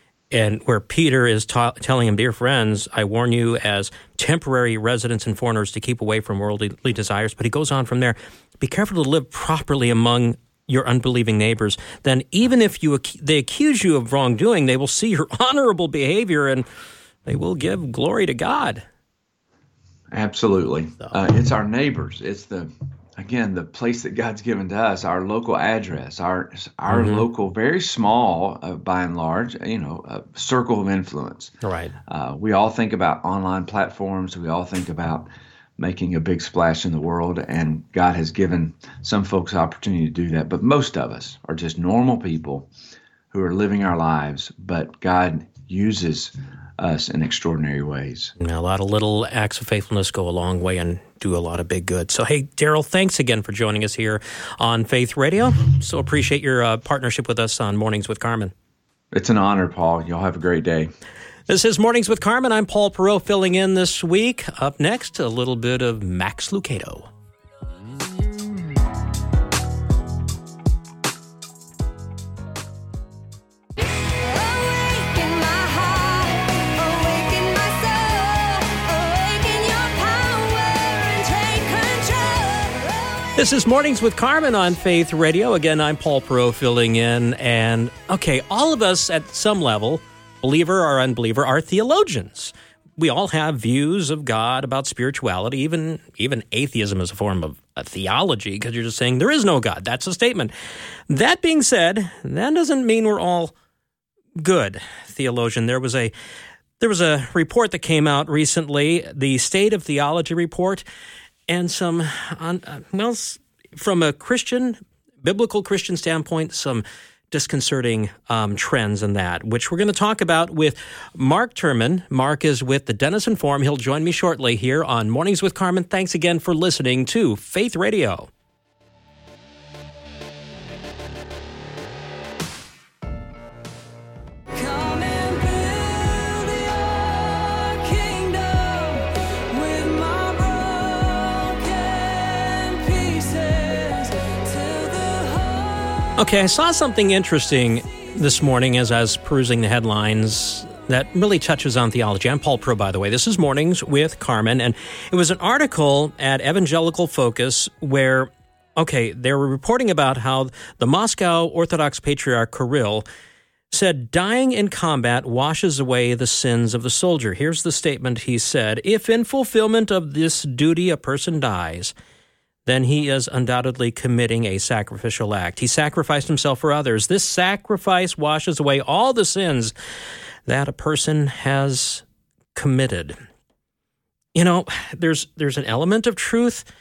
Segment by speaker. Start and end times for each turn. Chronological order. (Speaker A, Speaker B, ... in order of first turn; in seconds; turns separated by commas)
Speaker A: 0.3-16.6, Speaker A: 17.2-18.8, Speaker B: 20.1-31.5, Speaker A: 26.9-27.2, Speaker A: 31.6-31.9, Speaker B: 32.1-42.7, Speaker B: 43.3-48.3, Speaker A: 48.4-58.5, Speaker B: 59.1-60.9, Speaker A: 61.5-67.1, Speaker C: 74.2-83.3, Speaker A: 83.4-100.5, Speaker A: 101.1-103.5, Speaker A: 104.4-106.1, Speaker A: 106.8-110.8, Speaker A: 111.5-128.3, Speaker C: 134.5-146.2, Speaker A: 146.2-163.0, Speaker A: 163.7-171.9, Speaker A: 172.7-179.7, Speaker A: 180.4-182.0, Speaker A: 182.5-183.2, Speaker A: 184.3-186.6